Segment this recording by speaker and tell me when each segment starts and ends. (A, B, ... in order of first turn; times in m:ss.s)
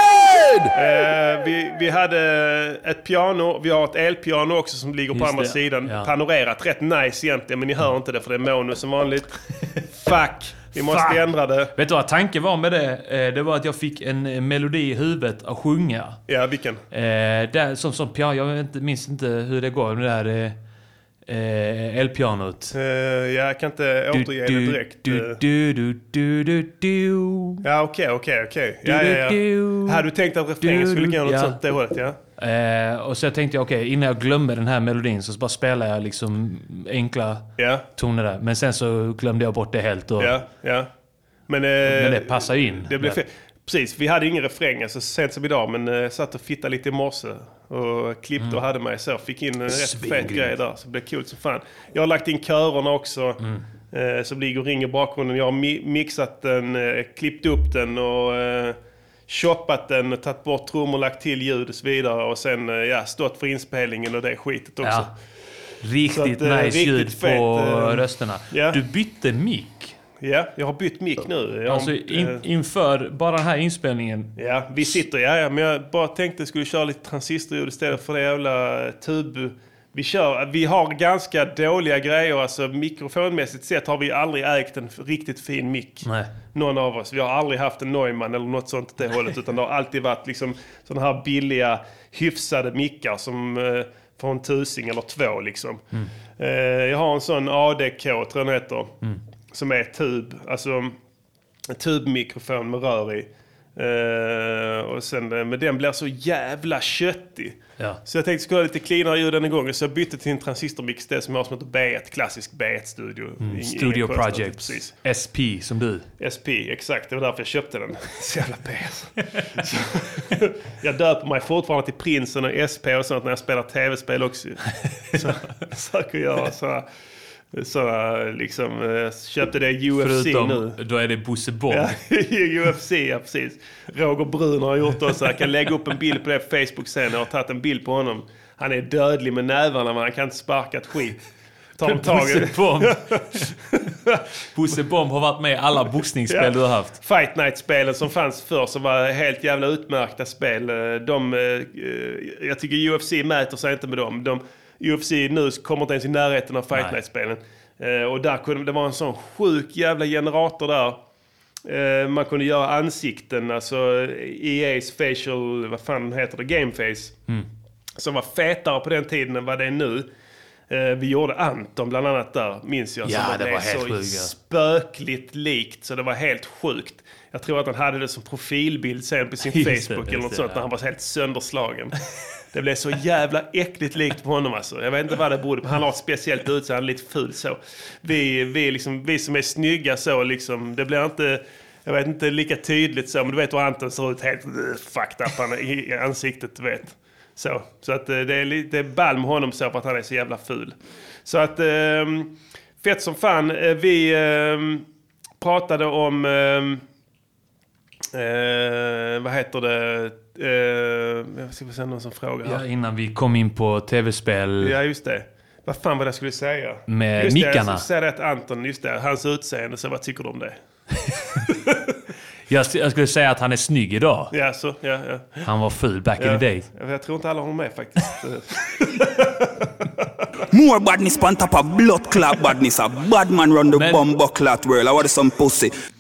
0:00.7-0:09.4 A
0:05.1-0:06.1 B
0:09.9-0:11.7 A
0:10.8-0:11.2 B
0:11.8-0:16.2 B
0:16.3-0:16.8 A
0:16.9-0:20.6 B
0:21.3-0:22.8 B
0:22.7-0:25.4 A
0:24.1-0:27.6 B
0:27.6-0:32.2 A
0:28.8-0:30.1 B
0:30.6-0:31.6 B
0:32.4-0:40.4 B
0:37.6-0:37.8 A
0:40.2-0:40.9 A
0:41.5-0:58.8 A
0:41.9-0:43.2 B
0:49.7-0:50.5 B
0:59.3-1:05.1 A
1:04.8-1:05.1 B
1:05.8-1:10.0 B
1:06.1-1:08.8 A
1:10.2-1:12.4 A
1:11.7-1:14.3 B
1:14.4-1:35.8 A
1:26.0-1:26.3 B
1:36.4-1:39.0 A
1:39.5-1:41.0 A
1:41.7-1:54.9 A
1:53.4-1:56.1 B
1:56.2-2:06.9 A
2:04.9-2:05.2 B
2:07.5-2:10.8 A
2:10.0-2:12.0 B
2:11.7-2:21.2 A
2:21.8-2:23.4 A
2:21.8-2:23.5 B
2:24.5-2:27.0 B
2:26.3-2:41.0 A
2:41.7-2:47.2 A
2:48.0-2:50.1 A
2:50.7-3:02.0 A
2:53.0-2:54.3 B
2:59.5-3:00.6 B
3:02.5-3:24.8 A
3:25.4-3:26.8 A
3:28.1-3:32.6 A
3:32.4-3:34.8 B
3:34.6-3:40.6 A
3:36.9-3:37.9 B
3:42.5-3:44.3 B
3:44.3-3:45.5 A
3:45.4-3:46.7 B
3:46.2-3:49.9 A
3:50.5-3:55.7 C
3:53.7-3:54.0 B